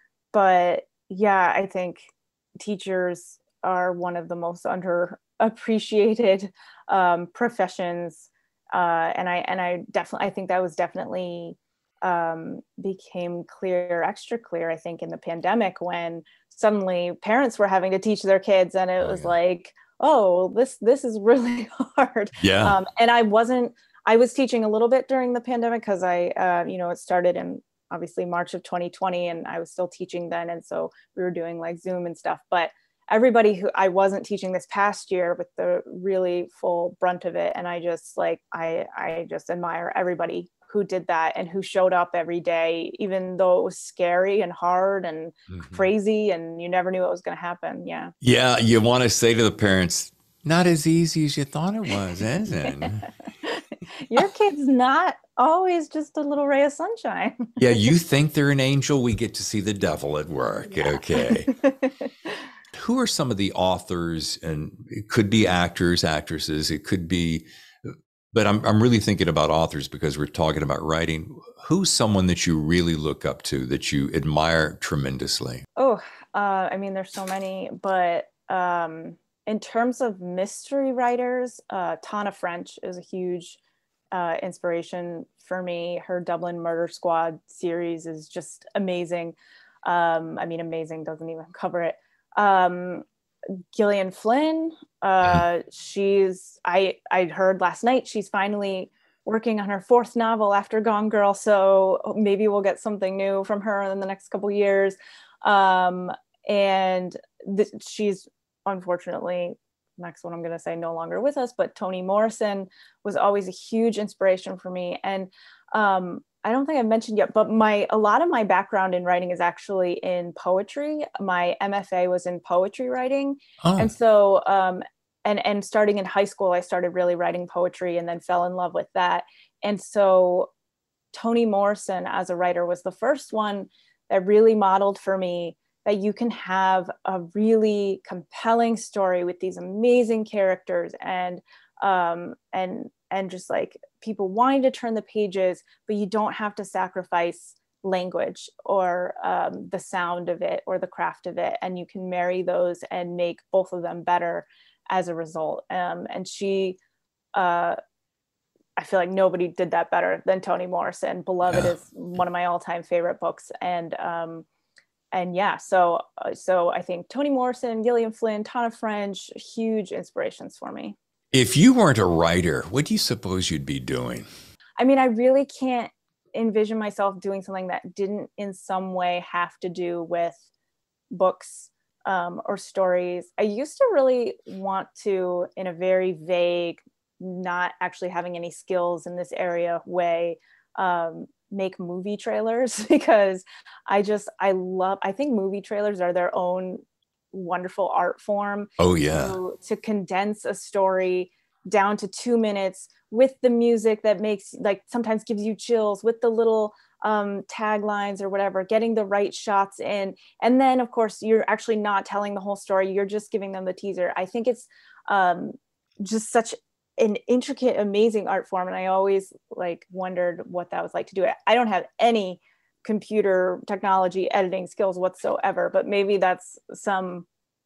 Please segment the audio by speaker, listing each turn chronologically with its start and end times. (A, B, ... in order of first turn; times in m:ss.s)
0:00.3-0:48.1 A
0:19.0-0:19.3 B
0:22.4-0:22.8 B
0:45.5-0:45.9 B
0:48.2-0:53.1 B
0:52.6-0:57.6 A
0:57.6-1:01.5 B
1:00.7-1:02.4 A
1:02.7-1:15.6 B
1:15.8-1:23.6 A
1:24.1-1:33.0 A
1:33.7-2:10.5 A
2:03.6-2:03.9 B
2:11.1-2:36.8 A
2:37.3-2:37.8 A
2:38.8-2:44.4 A
2:41.5-2:41.7 B
2:45.1-2:51.0 A
2:51.3-2:54.3 B
2:54.8-3:00.4 A
3:01.1-3:47.2 A
3:18.8-3:19.4 B